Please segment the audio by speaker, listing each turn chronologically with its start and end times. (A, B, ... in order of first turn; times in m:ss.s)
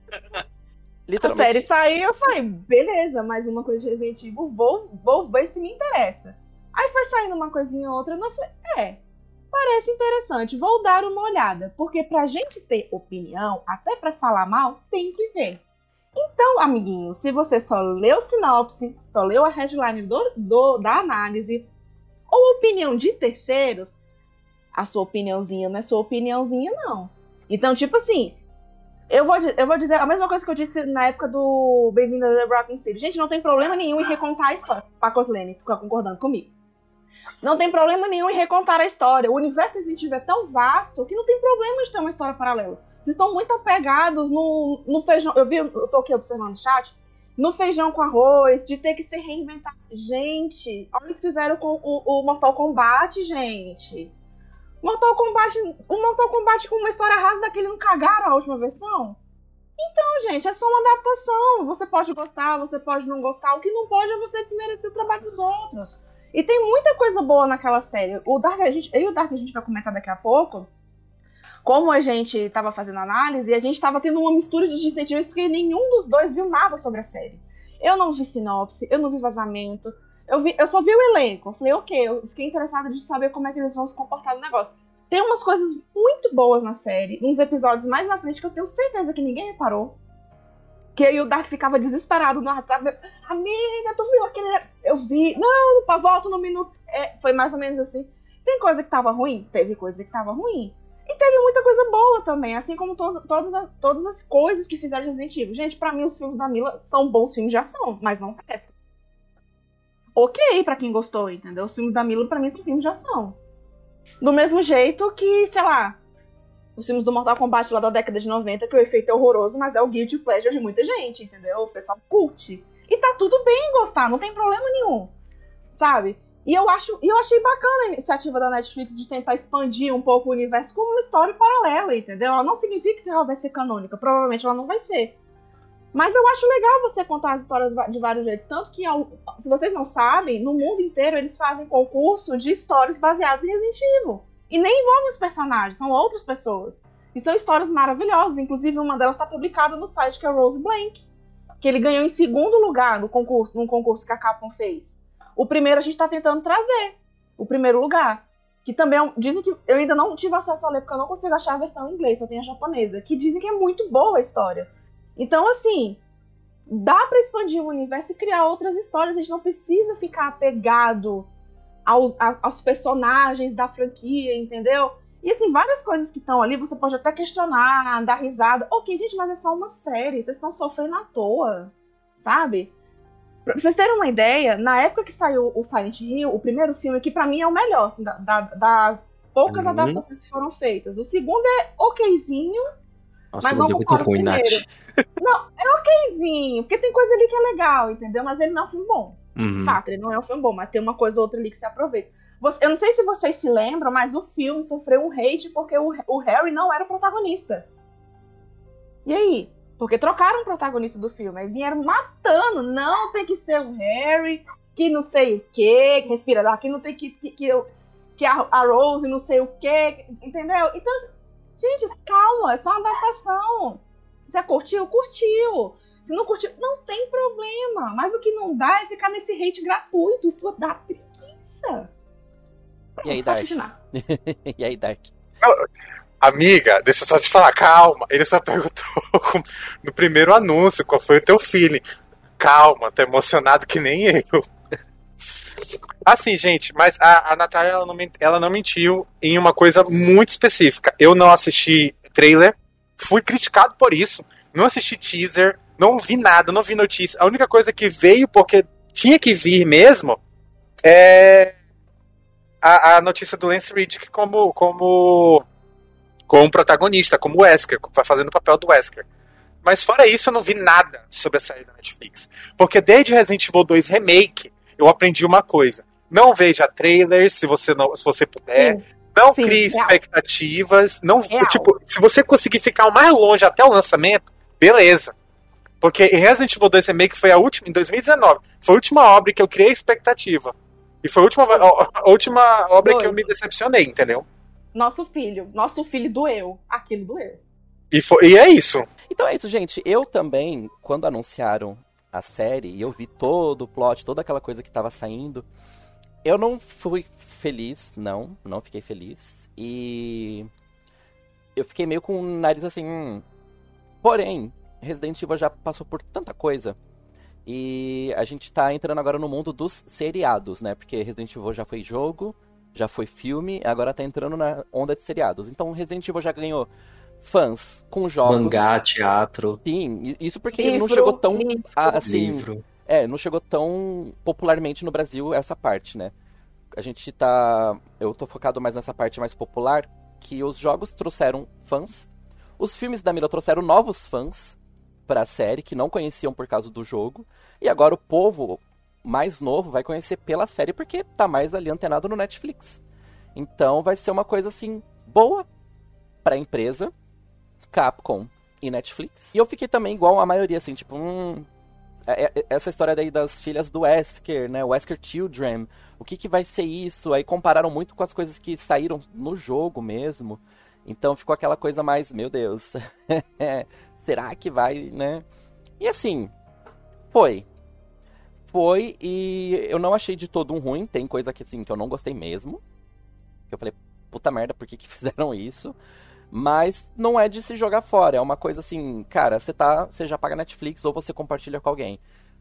0:01.1-0:01.7 A
0:01.2-0:15.6 B
0:16.1-0:21.7 B
0:22.3-0:24.0 B
0:24.7-0:28.4 B
0:29.1-0:36.5 B
0:37.4-0:54.1 B
0:54.8-0:59.2 B
0:59.8-1:10.7 B
1:11.6-1:30.0 B
1:31.0-1:48.7 B
1:50.2-1:53.4 B
1:54.2-1:56.0 B
1:56.8-2:05.1 B
2:05.7-2:15.2 B
2:15.9-2:31.0 B
2:31.6-2:46.0 B
2:46.7-2:51.3 B
2:51.8-3:02.7 B
3:03.4-3:12.6 B
3:09.5-3:10.0 C
3:13.3-3:14.7 C
3:13.4-3:14.6 B
3:15.2-3:27.6 B
3:19.4-3:19.8 C
3:29.0-3:41.0 B
3:41.6-3:51.9 B
3:53.0-3:53.7 B
3:53.0-3:55.1 A
3:55.4-3:55.7 D
3:56.2-4:01.8 D
4:02.4-4:04.4 D
4:06.0-4:20.2 D
4:20.8-4:21.6 D
4:22.6-4:25.4 D
4:26.3-4:29.0 D
4:29.6-4:45.1 D
4:39.3-4:40.0 B
4:41.3-4:41.7 B
4:45.8-4:54.2 D
4:52.8-4:53.3 B
4:54.7-4:57.4 B
4:57.9-4:58.9 D
4:59.1-5:05.5 A
5:06.2-5:10.5 A
5:11.6-5:13.2 A
5:14.0-5:16.8 A
5:17.4-5:26.7 A
5:27.2-5:28.7 A
5:28.2-5:29.6 C
5:29.6-5:36.1 A
5:30.6-5:32.0 B
5:31.9-5:32.6 C
5:36.7-5:52.8 A
5:53.3-5:55.5 A
5:56.2-5:56.9 A
5:57.7-6:01.5 A
6:02.0-6:15.2 A
6:15.8-6:16.3 A
6:17.1-6:17.5 A
6:18.5-6:22.6 A
6:23.5-6:25.8 A
6:26.3-6:32.0 A